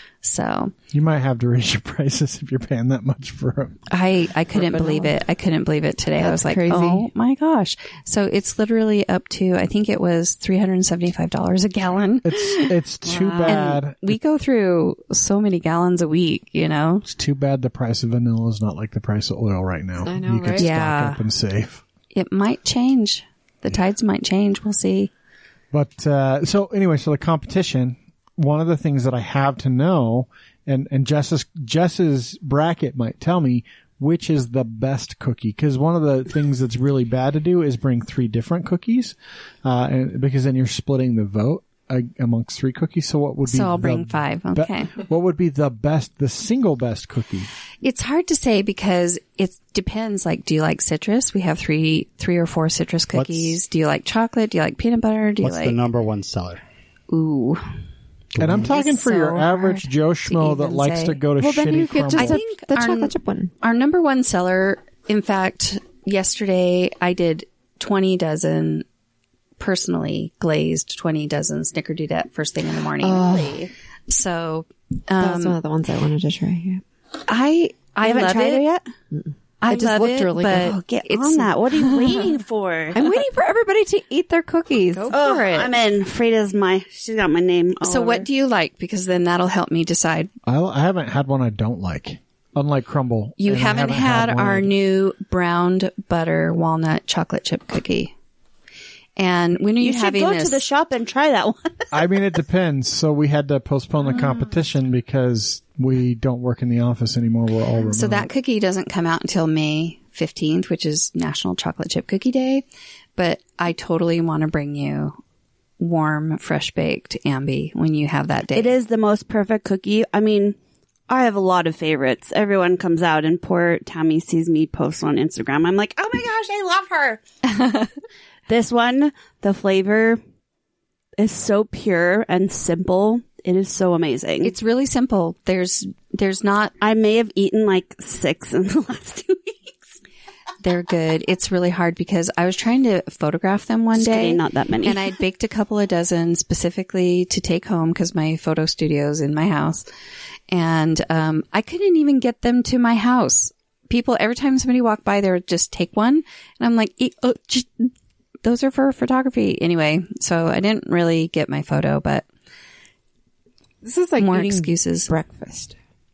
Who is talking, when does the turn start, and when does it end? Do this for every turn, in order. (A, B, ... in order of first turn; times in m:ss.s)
0:00.2-0:00.7 A
0:00.9-0:03.8 B
0:03.9-0:12.7 A
0:04.6-0:05.1 C
0:06.2-0:07.1 C
0:12.2-0:14.2 B
0:13.0-0:13.7 D
0:13.4-0:17.0 A
0:17.0-0:21.8 B
0:20.0-0:20.7 C
0:20.6-0:21.2 A
0:22.1-0:25.1 A
0:25.7-0:47.5 B
0:43.4-0:45.0 A
0:47.8-0:55.8 A
0:53.1-0:53.6 E
0:55.4-0:56.6 E
0:57.1-0:57.6 A
0:58.3-0:58.6 E
0:58.4-1:02.4 B
0:58.5-1:01.2 A
1:01.4-1:03.5 C
1:02.1-1:08.8 A
1:09.6-1:15.6 A
1:13.0-1:13.7 C
1:15.2-1:16.8 C
1:17.3-1:18.6 A
1:18.0-1:18.9 D
1:19.1-1:20.8 C
1:19.6-1:22.3 A
1:20.5-1:23.0 D
1:22.9-1:25.2 C
1:24.9-1:25.7 A
1:25.1-1:28.3 D
1:27.8-1:30.3 A
1:30.4-1:34.7 B
1:33.4-1:38.1 A
1:39.2-1:40.6 A
1:39.8-1:41.9 D
1:41.9-1:48.3 B
1:47.9-1:52.6 A
1:53.2-1:55.2 A
1:55.8-1:58.7 A
1:58.5-2:00.6 D
2:01.1-2:07.2 D
2:07.5-2:07.9 A
2:08.5-2:10.2 D
2:11.2-2:14.5 D
2:14.4-2:16.7 A
2:16.8-2:19.8 D
2:20.6-2:29.8 A
2:23.9-2:25.1 D
2:30.5-2:37.9 A
2:38.4-2:42.2 A
2:43.8-2:45.8 C
2:44.2-2:45.1 A